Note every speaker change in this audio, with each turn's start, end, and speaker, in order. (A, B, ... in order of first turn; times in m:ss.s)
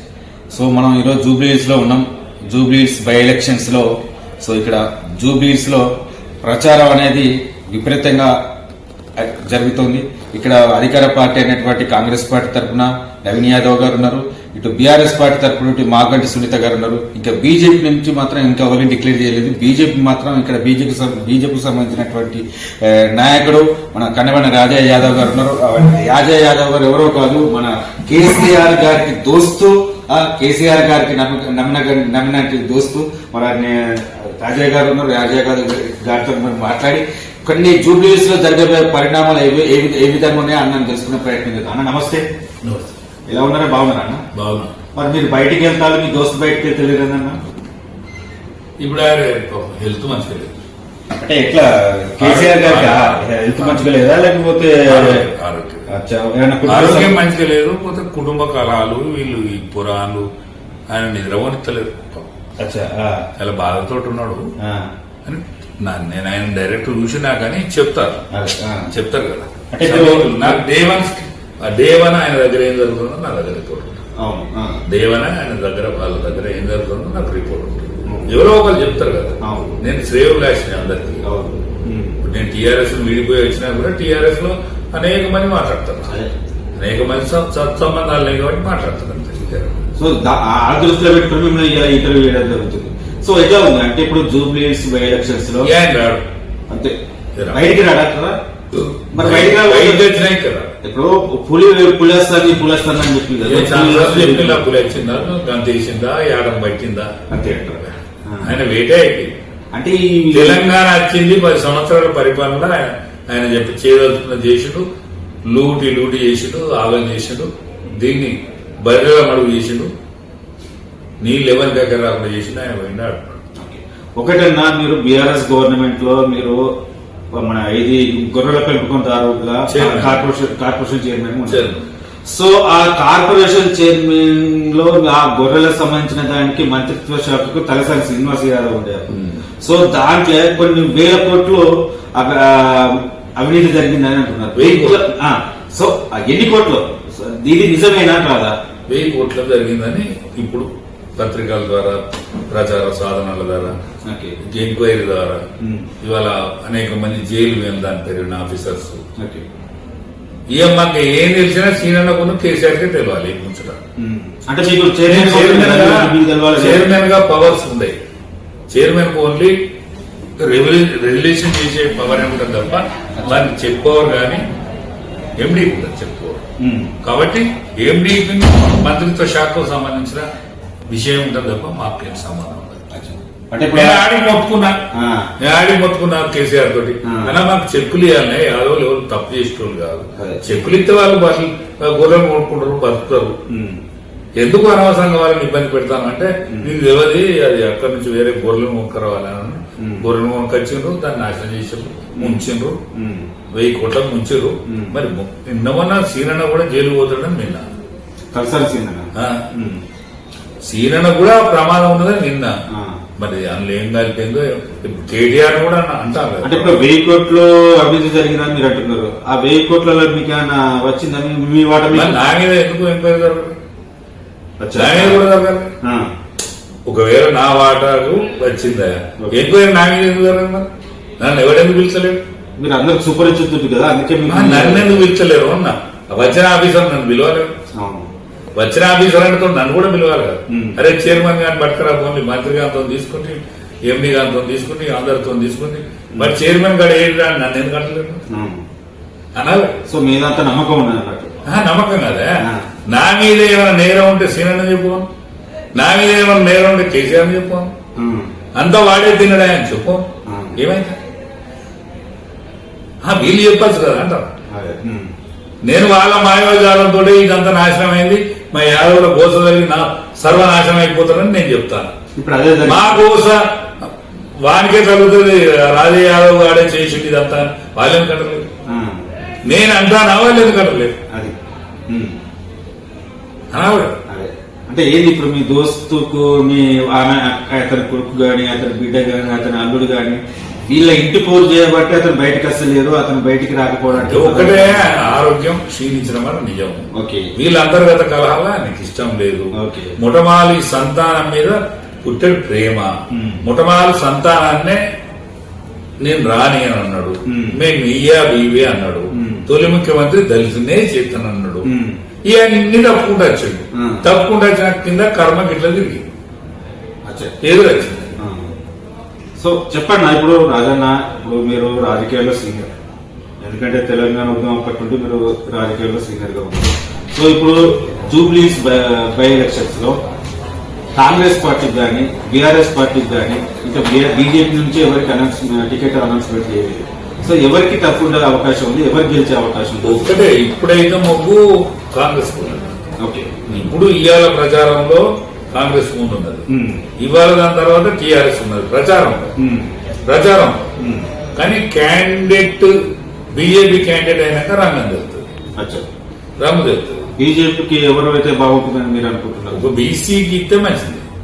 0:00.5-0:03.9 A
0:04.4-0:05.9 A
0:06.4-0:08.3 A
0:09.2-0:42.3 A
0:42.6-0:42.9 B
0:43.3-0:44.2 A
0:44.3-0:44.7 B
0:45.0-0:47.4 A
0:48.8-0:50.5 B
0:51.2-0:55.2 A
0:52.2-0:53.9 B
0:54.9-0:55.9 B
0:55.9-0:57.2 A
0:56.7-1:00.3 B
1:00.9-1:02.3 B
1:02.6-1:03.3 A
1:03.4-1:04.4 B
1:04.6-1:04.9 A
1:05.2-1:08.2 B
1:08.3-1:08.9 A
1:08.9-1:14.0 B
1:09.7-1:10.6 A
1:14.2-1:14.8 A
1:14.9-1:21.2 B
1:19.4-1:19.7 A
1:21.2-1:22.2 A
1:22.2-1:26.1 B
1:26.8-1:29.8 B
1:30.0-1:35.7 A
1:35.6-1:36.2 B
1:36.7-1:37.0 A
1:37.4-1:37.7 B
1:37.5-1:38.4 A
1:38.7-1:40.8 B
1:39.1-1:40.1 A
1:40.8-1:44.6 A
1:43.4-1:47.1 B
1:47.3-1:48.5 A
1:48.4-1:49.4 B
1:49.7-1:50.6 A
1:50.3-1:54.9 B
1:55.5-1:59.9 B
2:01.2-2:03.4 B
2:03.6-2:06.7 A
2:07.3-2:11.7 A
2:09.7-2:10.2 B
2:11.5-2:11.9 B
2:12.3-2:28.6 A
2:19.1-2:19.4 B
2:24.6-2:25.0 B
2:28.9-2:33.8 B
2:34.1-2:34.4 A
2:34.4-2:35.4 B
2:35.6-2:35.9 A
2:36.0-2:39.0 B
2:39.2-2:39.4 A
2:40.5-2:43.8 B
2:44.0-2:46.9 A
2:45.1-2:48.0 B
2:48.7-2:49.6 B
2:50.4-2:54.4 B
2:55.4-2:56.4 B
2:56.6-2:57.0 A
2:57.0-3:00.3 B
3:00.9-3:02.8 B
3:02.9-3:04.0 A
3:03.7-3:04.8 B
3:04.9-3:05.3 A
3:05.4-3:13.3 B
3:07.1-3:07.3 A
3:10.2-3:10.5 A
3:13.5-3:13.8 A
3:14.4-3:22.8 B
3:19.8-3:20.1 A
3:22.2-3:23.3 A
3:23.5-3:27.6 B
3:24.7-3:25.0 A
3:28.3-3:29.8 A
3:29.2-3:29.4 B
3:30.6-3:32.6 B
3:32.7-3:33.0 A
3:33.2-3:36.8 B
3:36.4-3:42.2 A
3:41.9-3:43.6 B
3:44.6-3:45.2 A
3:44.7-3:45.7 B
3:45.8-3:46.1 A
3:46.9-3:50.7 B
3:51.2-3:52.2 B
3:52.6-3:55.1 A
3:54.3-3:57.5 B
3:57.8-3:58.1 A
3:58.6-4:08.2 B
4:00.5-4:00.8 A
4:08.3-4:08.6 A
4:09.4-4:09.8 B
4:09.9-4:11.4 A
4:11.5-4:15.1 B
4:12.4-4:12.7 A
4:15.8-4:17.7 B
4:18.0-4:18.3 A
4:18.6-4:20.0 B
4:20.3-4:20.6 A
4:20.6-4:21.0 B
4:23.0-4:24.3 B
4:24.5-4:25.1 A
4:25.6-4:31.9 B
4:32.2-4:33.0 A
4:32.6-4:38.4 B
4:38.7-4:39.0 A
4:39.4-4:40.9 B
4:41.9-4:42.2 A
4:43.5-4:44.0 B
4:44.1-4:55.1 A
4:53.9-4:56.8 B
4:57.0-4:57.3 A
4:57.4-5:02.9 B
4:59.6-4:59.9 A
5:03.1-5:03.4 A
5:03.4-5:04.8 B
5:06.0-5:11.7 B
5:07.3-5:07.6 A
5:09.1-5:09.5 A
5:11.6-5:12.0 A
5:12.2-5:16.0 B
5:13.8-5:14.0 A
5:17.1-5:17.4 A
5:17.4-5:18.1 B
5:18.2-5:18.5 A
5:19.4-5:22.7 A
5:23.4-5:30.0 A
5:31.0-5:40.2 A
5:39.8-5:42.7 B
5:43.0-5:43.7 A
5:43.5-5:46.5 B
5:46.5-5:46.8 A
5:47.0-5:49.3 B
5:49.4-5:49.7 A
5:50.1-5:50.7 B
5:50.8-5:51.1 A
5:51.4-5:52.7 B
5:53.3-5:55.2 B
5:55.6-5:55.8 A
5:56.4-5:57.1 B
5:57.2-5:59.6 A
5:59.5-6:01.1 B